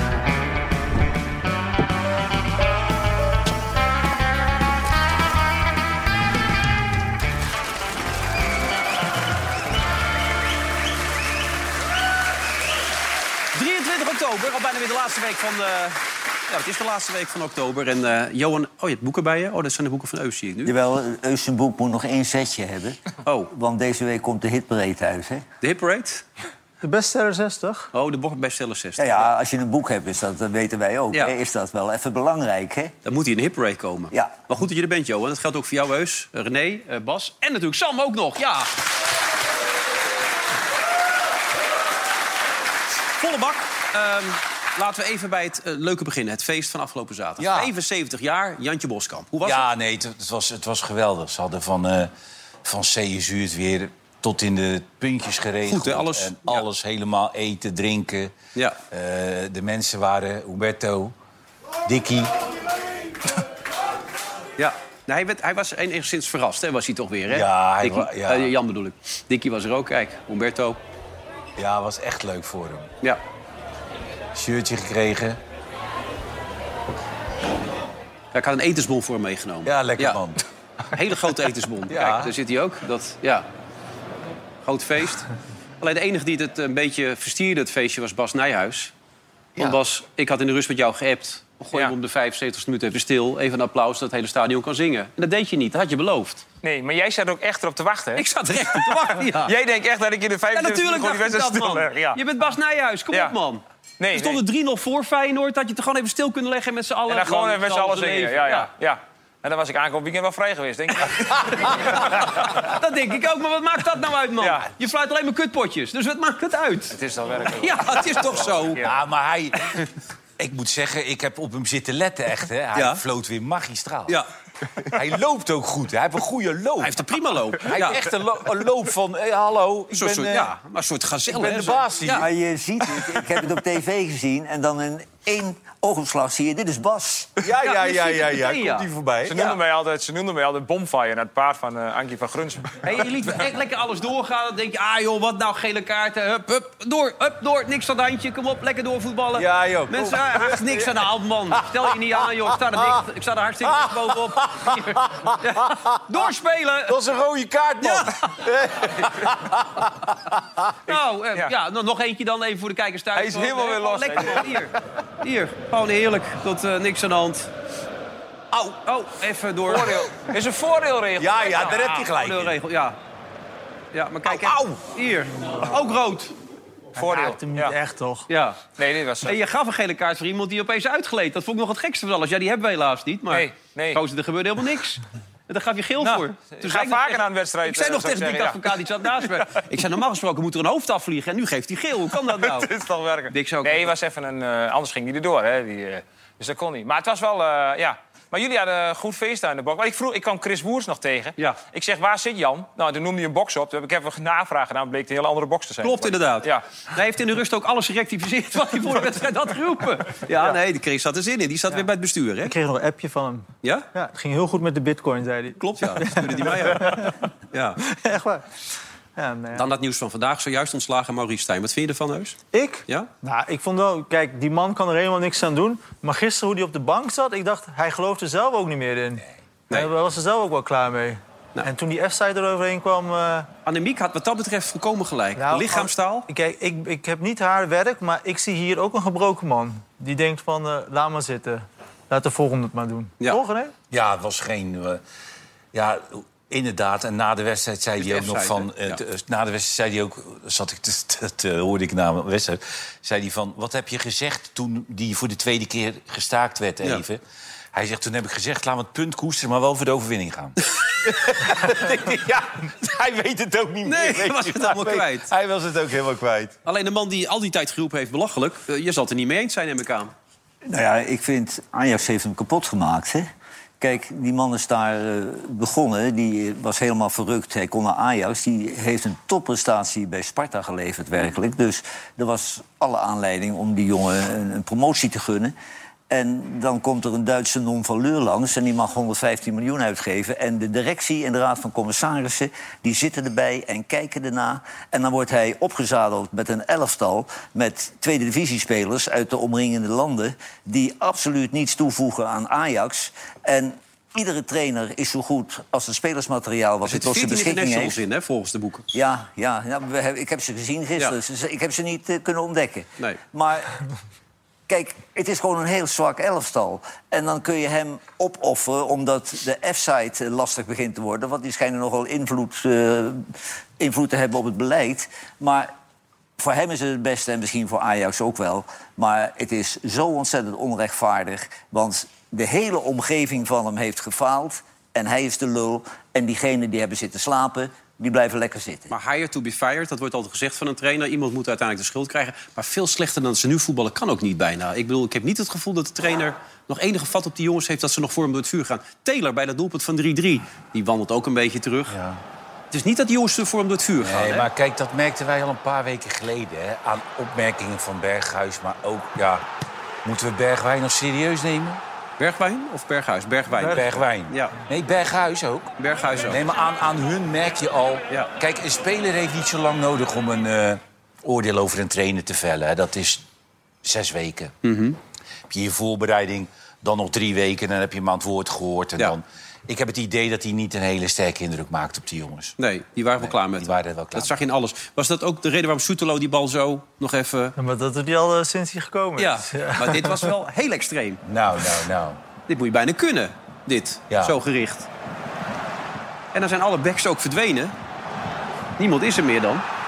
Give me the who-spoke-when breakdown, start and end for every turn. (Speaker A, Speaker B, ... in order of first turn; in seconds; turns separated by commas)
Speaker A: 13.5-20.7, Speaker B: 20.6-23.0, Speaker A: 23.2-23.5, Speaker B: 23.5-25.4, Speaker A: 25.6-26.2, Speaker C: 26.8-27.9, Speaker A: 27.9-29.3, Speaker B: 29.0-32.9, Speaker A: 33.0-38.7, Speaker A: 43.2-49.6, Speaker D: 47.4-47.7, Speaker D: 49.4-52.1, Speaker D: 52.6-58.3, Speaker A: 55.7-56.6, Speaker D: 58.9-61.1, Speaker D: 61.8-62.3, Speaker A: 64.6-70.8, Speaker D: 67.3-68.5, Speaker D: 71.6-72.9, Speaker D: 74.3-75.4, Speaker A: 78.3-80.2, Speaker D: 79.6-80.4, Speaker A: 80.9-83.5, Speaker D: 81.9-82.3, Speaker A: 84.6-88.9, Speaker A: 89.6-96.4, Speaker E: 96.6-98.2, Speaker A: 98.2-99.5, Speaker E: 98.9-102.2, Speaker A: 100.5-108.7, Speaker E: 104.0-104.4, Speaker E: 107.1-112.3, Speaker A: 111.4-117.0, Speaker E: 114.4-114.7, Speaker E: 116.9-118.9, Speaker A: 117.5-118.8, Speaker D: 118.8-119.8, Speaker D: 120.4-124.2, Speaker A: 122.7-123.0, Speaker D: 124.8-127.0, Speaker A: 126.8-128.0, Speaker D: 127.5-130.5, Speaker A: 129.9-132.3, Speaker D: 131.3-132.3, Speaker B: 132.1-137.3, Speaker D: 137.4-139.6, Speaker A: 137.6-138.9, Speaker E: 139.3-142.8, Speaker A: 142.8-157.0, Speaker D: 149.3-151.0, Speaker D: 151.5-153.0, Speaker D: 153.7-156.2, Speaker D: 156.9-160.9, Speaker A: 157.8-158.3, Speaker A: 160.8-167.5, Speaker E: 163.1-164.5, Speaker D: 168.5-168.8, Speaker A: 168.8-169.9, Speaker E: 169.7-172.1, Speaker D: 171.2-172.6, Speaker A: 172.0-173.0, Speaker A: 173.9-176.3, Speaker D: 174.2-174.8, Speaker C: 176.9-178.2, Speaker E: 177.0-177.7, Speaker A: 178.3-178.6, Speaker E: 178.8-179.3, Speaker A: 179.2-192.7, Speaker E: 183.3-184.0, Speaker E: 186.0-188.6, Speaker E: 192.4-206.6, Speaker A: 193.3-193.9, Speaker A: 205.8-212.5, Speaker C: 212.4-217.1, Speaker A: 215.6-217.8, Speaker C: 217.8-218.4, Speaker C: 219.2-219.6, Speaker A: 219.5-223.1, Speaker C: 222.5-233.5, Speaker A: 233.7-236.2, Speaker C: 235.4-243.7, Speaker D: 243.9-245.0, Speaker D: 245.7-257.2, Speaker A: 248.0-249.0, Speaker D: 257.7-266.5, Speaker A: 263.8-265.3, Speaker A: 266.6-270.1, Speaker B: 270.7-273.3, Speaker B: 273.8-285.5, Speaker B: 286.1-308.0, Speaker A: 306.8-308.8, Speaker B: 308.9-313.8, Speaker B: 314.7-325.7, Speaker B: 326.4-338.9, Speaker A: 338.9-351.9, Speaker D: 351.9-352.2, Speaker A: 352.7-354.5, Speaker D: 354.0-359.4, Speaker D: 360.0-361.8, Speaker A: 362.2-364.5, Speaker C: 363.6-363.8, Speaker D: 363.6-365.7, Speaker A: 365.8-366.4, Speaker D: 366.2-373.2, Speaker D: 373.8-374.5, Speaker A: 374.6-375.0, Speaker D: 375.5-382.6, Speaker A: 382.6-387.5, Speaker D: 383.2-384.4, Speaker C: 387.6-390.1, Speaker A: 389.2-391.2, Speaker D: 391.2-392.2, Speaker A: 392.5-394.9, Speaker D: 394.1-394.4, Speaker A: 396.3-397.7, Speaker A: 398.8-399.6